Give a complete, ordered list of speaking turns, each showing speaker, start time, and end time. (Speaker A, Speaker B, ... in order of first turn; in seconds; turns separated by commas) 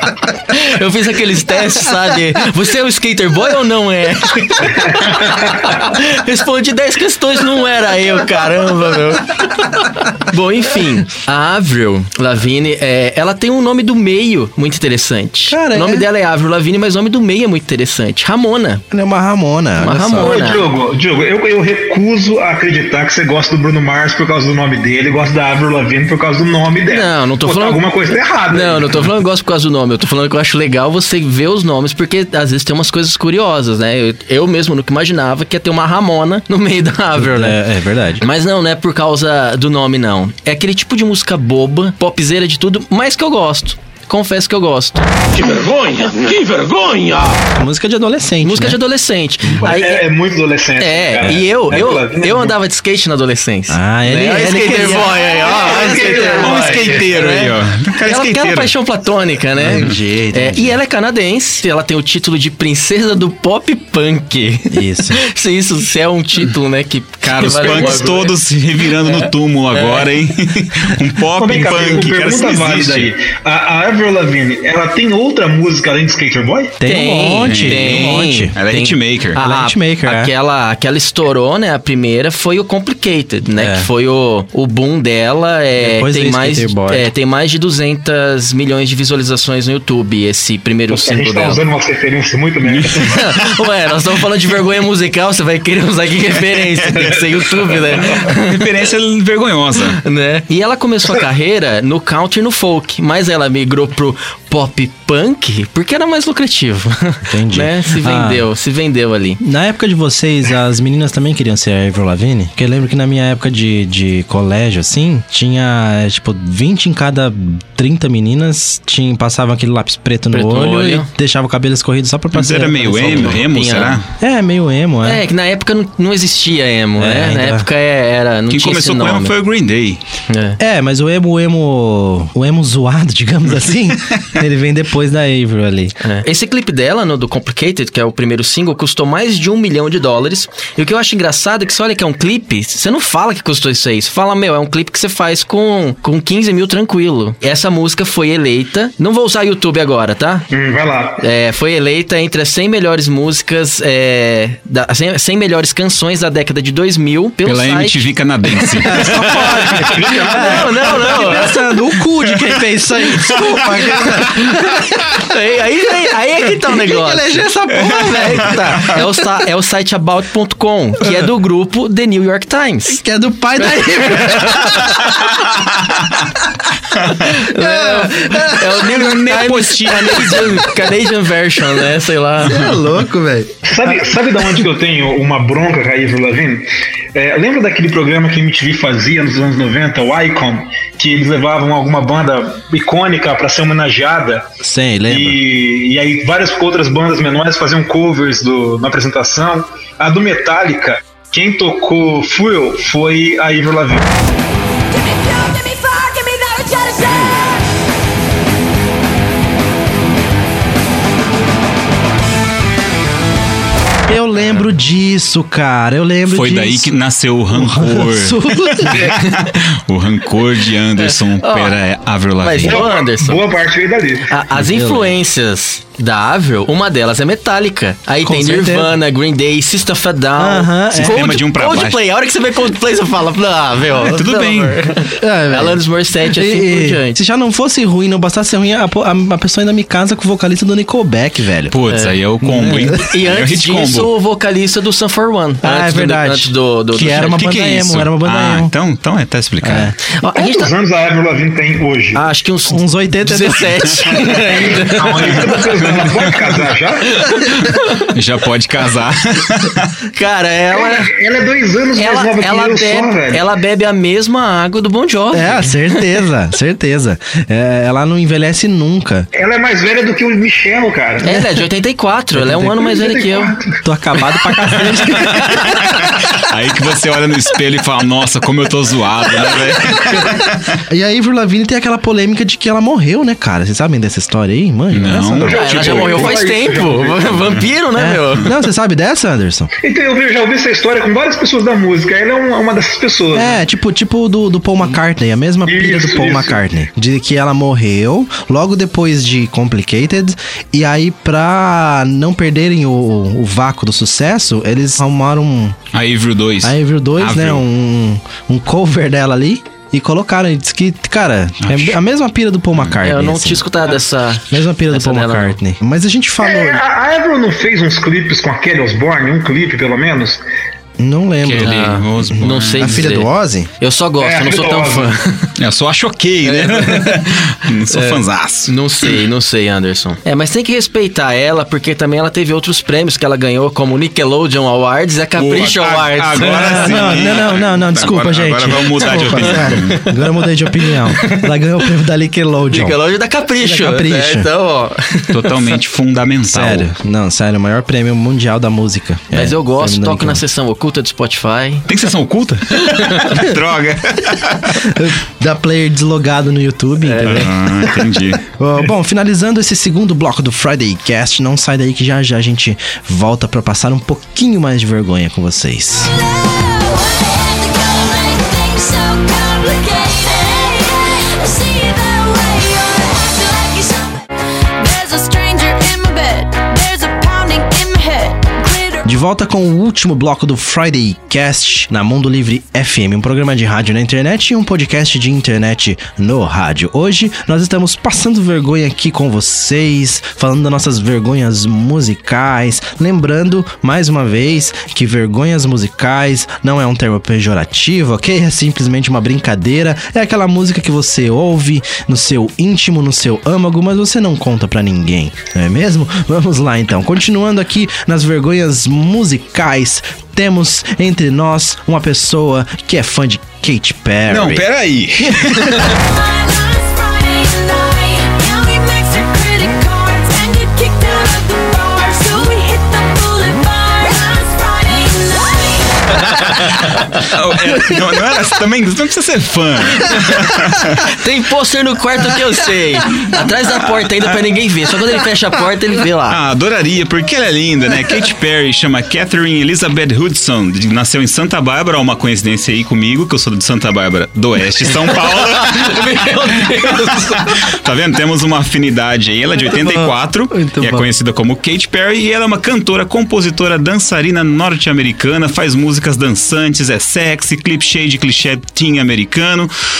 Speaker A: 0.5-18.8, Speaker B: 15.5-16.1, Speaker B: 18.9-20.3, Speaker A: 19.8-20.6, Speaker C: 20.2-29.1, Speaker A: 26.9-27.9, Speaker A: 28.5-37.6, Speaker B: 37.2-38.2, Speaker A: 38.2-45.0, Speaker D: 45.3-47.5, Speaker B: 47.6-48.8, Speaker A: 48.4-50.1, Speaker C: 49.6-52.6, Speaker A: 50.8-68.3, Speaker B: 53.7-55.2, Speaker C: 55.3-57.0, Speaker E: 56.2-58.7, Speaker B: 59.5-60.8, Speaker B: 64.7-65.2, Speaker E: 67.2-73.1, Speaker C: 67.6-68.2, Speaker A: 69.0-70.1, Speaker C: 71.4-76.8, Speaker B: 76.8-78.5, Speaker A: 76.8-91.6, Speaker E: 77.5-79.4, Speaker B: 79.4-80.3, Speaker B: 83.5-83.9, Speaker B: 85.8-87.1, Speaker C: 90.9-93.2, Speaker E: 92.6-93.0, Speaker A: 93.0-98.6, Speaker E: 98.0-100.0, Speaker A: 99.9-109.4, Speaker B: 107.3-108.5, Speaker B: 109.4-123.4, Speaker A: 120.3-121.1, Speaker E: 122.3-124.1, Speaker A: 122.8-124.0, Speaker B: 124.2-125.2, Speaker A: 125.0-129.3, Speaker B: 127.0-127.7, Speaker E: 128.5-130.0, Speaker A: 130.3-130.6, Speaker B: 130.6-135.9, Speaker E: 133.7-134.2, Speaker A: 136.0-150.5, Speaker C: 150.5-151.2, Speaker A: 151.2-158.0, Speaker E: 157.4-159.8, Speaker A: 158.8-161.7, Speaker B: 158.9-165.0, Speaker C: 159.9-160.8, Speaker A: 163.3-164.5, Speaker A: 165.3-173.0, Speaker B: 166.7-169.0, Speaker E: 167.8-168.2, Speaker B: 171.0-171.3, Speaker B: 172.9-175.3, Speaker A: 173.7-175.1, Speaker E: 175.0-175.5, Speaker A: 177.2-182.7, Speaker B: 177.5-178.8, Speaker E: 178.8-180.7, Speaker B: 182.4-183.9, Speaker C: 183.7-194.5, Speaker B: 194.6-195.4, Speaker C: 195.1-204.1, Speaker F: 204.9-207.6, Speaker B: 214.1-217.0, Speaker E: 216.3-222.9, Speaker B: 217.5-219.1, Speaker C: 218.9-219.2, Speaker A: 221.0-221.8, Speaker A: 222.4-223.4, Speaker C: 222.7-224.3, Speaker A: 224.3-237.2, Speaker B: 224.6-225.2, Speaker B: 228.2-228.9, Speaker B: 230.4-231.2, Speaker E: 230.9-232.0, Speaker E: 233.9-234.8, Speaker B: 235.2-241.8, Speaker E: 241.7-244.1, Speaker A: 241.9-242.2, Speaker B: 242.4-243.0, Speaker A: 243.0-247.5, Speaker B: 245.6-248.7, Speaker E: 247.3-249.9, Speaker B: 249.6-249.9, Speaker A: 250.1-250.7, Speaker C: 250.4-252.2, Speaker A: 252.2-255.6, Speaker B: 252.7-254.2, Speaker C: 254.9-257.2, Speaker E: 255.5-256.3, Speaker A: 257.2-258.1, Speaker E: 258.0-259.9, Speaker A: 260.2-261.1, Speaker C: 260.7-263.4, Speaker A: 262.0-266.1, Speaker B: 265.3-269.3, Speaker C: 269.3-271.3, Speaker B: 271.2-271.5, Speaker A: 271.2-273.5, Speaker B: 272.4-272.7, Speaker C: 272.6-273.8, Speaker B: 273.8-276.1, Speaker E: 275.6-280.8, Speaker B: 280.9-285.6, Speaker E: 284.9-286.3, Speaker C: 285.4-287.6, Speaker A: 285.5-288.5, Speaker B: 288.0-289.7, Speaker C: 289.8-293.6, Speaker B: 293.3-305.8, Speaker C: 295.6-296.6, Speaker E: 305.9-307.6, Speaker B: 306.6-313.6, Speaker E: 311.6-312.0, Speaker A: 313.0-315.6, Speaker B: 314.5-316.8, Speaker C: 316.4-320.4, Speaker B: 321.0-323.7, Speaker E: 321.4-323.0, Speaker A: 321.6-325.5, Speaker C: 324.2-325.1, Speaker E: 325.6-329.2, Speaker A: 326.4-327.4, Speaker A: 327.9-337.3, Speaker E: 335.4-340.0, Speaker B: 336.4-343.0, Speaker A: 339.6-340.1, Speaker A: 340.9-341.5, Speaker A: 342.7-345.6, Speaker B: 343.6-344.5, Speaker E: 345.3-346.9, Speaker B: 346.5-350.4, Speaker A: 349.3-351.9, Speaker E: 351.9-354.9, Speaker B: 354.7-366.1, Speaker A: 357.1-357.5, Speaker E: 357.2-358.4, Speaker F: 366.1-374.3, Speaker F: 374.8-379.1, Speaker B: 379.1-414.7, Speaker E: 414.3-416.0, Speaker B: 415.2-415.9, Speaker F: 415.9-426.6, Speaker E: 427.2-431.0, Speaker A: 431.1-436.4, Speaker E: 436.3-446.9, Speaker A: 445.3-447.7, Speaker E: 447.7-459.7, Speaker B: 449.7-451.1